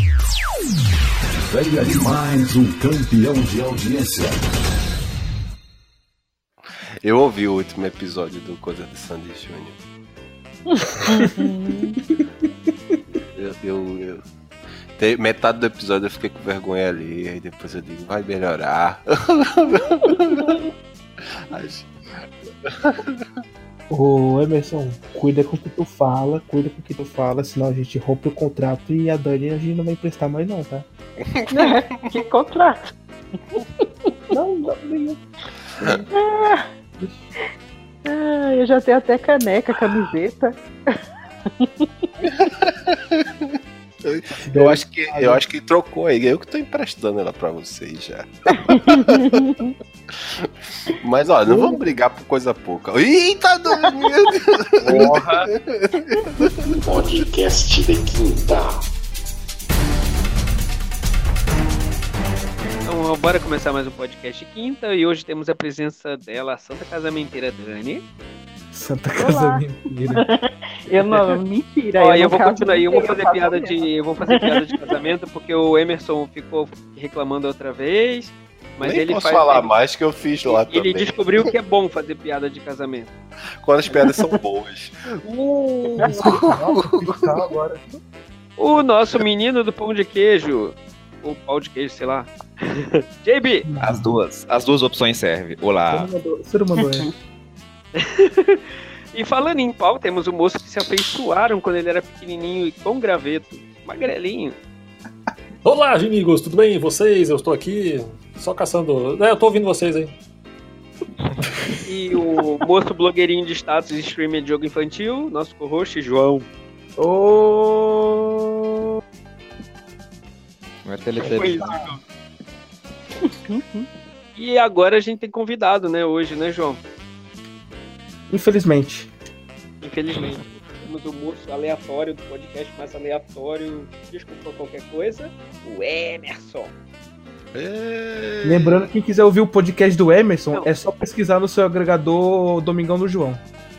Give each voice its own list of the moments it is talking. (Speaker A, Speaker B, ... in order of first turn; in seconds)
Speaker A: 1.5-4.6, 56.8-58.6
Speaker B: 7.0-9.8, 13.3-14.2, 15.0-20.6, 21.5-21.9, 22.6-23.2, 31.4-31.7, 42.2-49.5, 50.4-56.8, 78.8-81.2, 83.6-85.0, 86.0-87.1, 137.5-138.9
Speaker C: 11.1-12.0, 31.5-32.9, 36.2-36.6, 38.0-41.0, 41.6-41.9, 48.7-49.7, 69.2-69.6, 70.2-73.8, 123.5-123.9
Speaker D: 23.9-30.8, 34.3-35.2, 35.8-36.1, 44.4-45.4, 51.5-51.8, 68.7-70.2, 85.2-87.8, 93.7-94.1, 95.9-97.1, 117.0-118.8, 128.3-129.1, 138.4-143.4
Speaker E: 54.8-55.5, 62.8-68.0, 72.0-79.7, 80.4-83.1, 88.6-93.7, 97.9-104.5, 111.9-116.5, 121.2-122.0, 124.3-126.8, 129.8-136.7
Speaker F: 93.8-96.1, 120.8-121.8
Speaker G: 105.6-110.2